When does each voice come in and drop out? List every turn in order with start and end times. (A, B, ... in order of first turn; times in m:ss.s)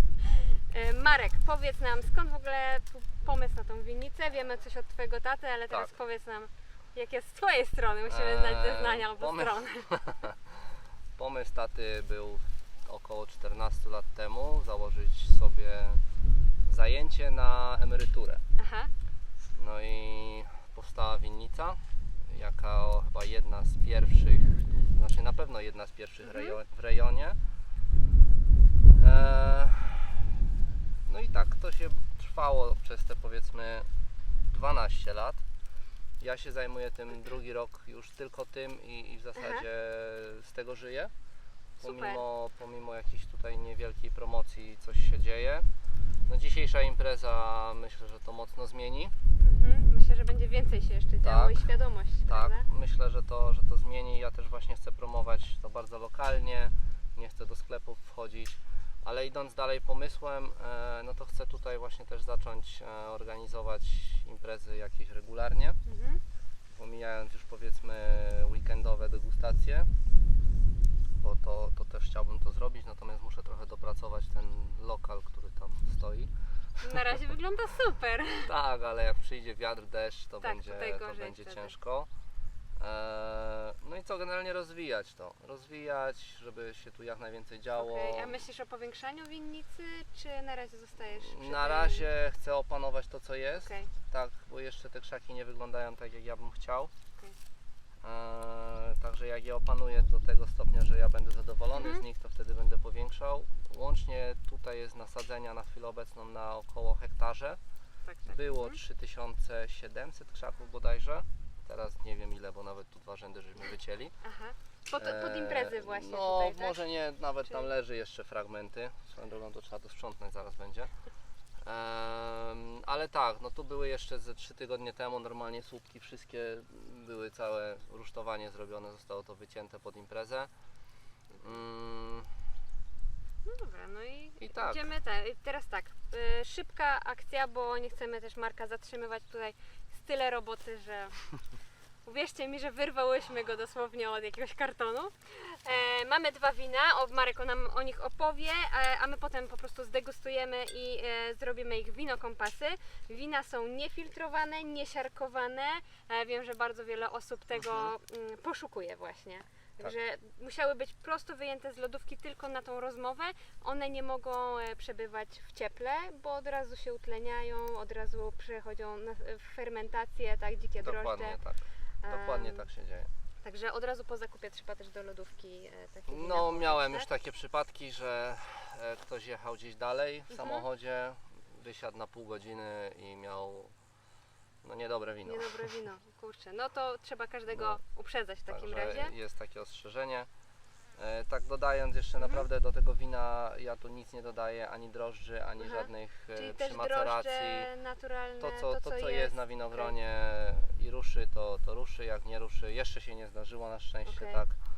0:00.3-0:09.9 A
0:08.1-0:10.6 B
0:11.2-0:16.0 B
0:16.7-0:18.4 B
0:18.6-0:18.9 A
0:19.6-0:27.4 B
0:26.2-0:26.6 A
0:29.0-0:30.2 B
0:31.0-0:33.9 B
0:34.5-0:35.4 B
0:36.2-0:41.1 B
0:39.4-0:39.6 A
0:41.8-0:45.7 B
0:41.8-0:42.2 A
0:46.3-0:49.2 B
0:49.4-0:52.6 A
0:51.2-0:51.7 B
0:52.3-1:05.8 B
1:05.9-1:06.2 A
1:06.7-1:09.9 B
1:11.2-1:16.3 B
1:16.8-1:18.5 A
1:18.4-1:22.1 B
1:20.4-1:21.7 A
1:22.8-1:28.4 B
1:27.8-1:32.1 A
1:31.2-1:36.9 B
1:33.6-1:33.9 A
1:38.0-1:47.6 B
1:41.8-1:42.0 A
1:48.0-1:48.8 A
1:48.3-1:54.1 B
1:54.2-1:56.8 A
1:55.0-2:00.9 B
1:57.4-1:57.7 A
2:01.6-2:10.5 B
2:11.4-2:12.3 B
2:13.4-2:21.2 A
2:14.4-2:14.8 B
2:22.0-2:51.4 A
2:37.6-2:37.9 B
2:50.8-2:53.1 B
2:52.0-2:52.7 A
2:53.4-2:57.1 A
2:56.1-3:03.7 B
3:00.3-3:00.6 A
3:04.6-3:05.7 B
3:05.2-3:09.1 A
3:07.5-3:07.8 B
3:08.5-3:10.3 B
3:11.0-3:17.7 B
3:12.2-3:12.5 A
3:15.6-3:20.0 A
3:18.4-3:24.6 B
3:24.0-3:24.4 A